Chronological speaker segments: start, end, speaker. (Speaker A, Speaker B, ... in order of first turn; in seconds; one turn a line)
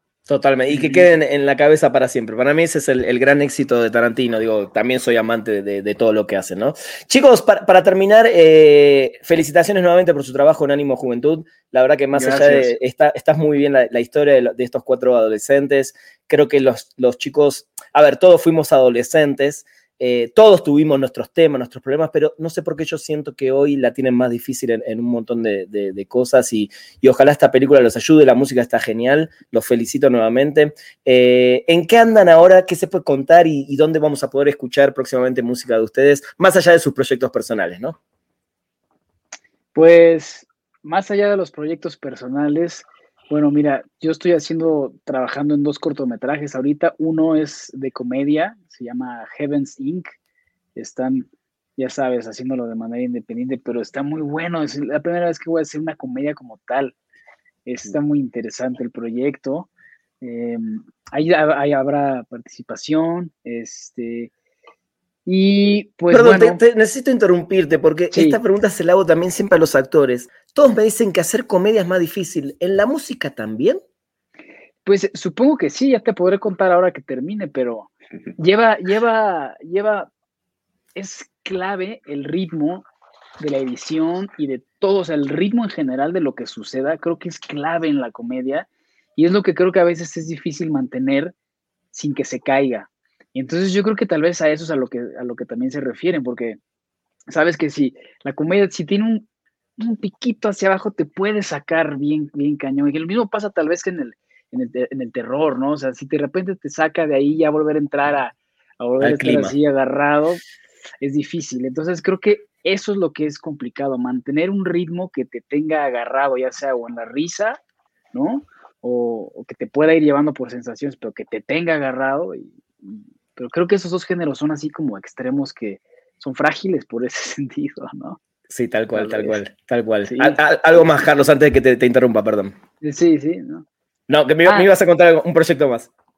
Speaker A: 0.3-38.0
Speaker B: 0.7-1.1
Speaker B: 12.1-12.7
Speaker B: 39.7-50.1
Speaker B: 50.8-56.9
Speaker B: 57.6-59.7
Speaker B: 60.2-64.3
Speaker B: 65.2-66.6
Speaker A: 66.1-73.8
Speaker B: 68.1-68.4
Speaker B: 74.8-80.1
Speaker B: 80.9-82.9
Speaker B: 83.4-91.3
Speaker B: 91.9-96.6
Speaker B: 97.3-99.3
Speaker B: 99.8-110.4
Speaker A: 109.0-109.5
Speaker B: 111.0-117.6
Speaker B: 118.1-128.2
Speaker A: 128.5-132.6
Speaker B: 128.9-129.4
Speaker B: 130.0-130.4
Speaker B: 132.8-133.7
Speaker A: 134.1-135.9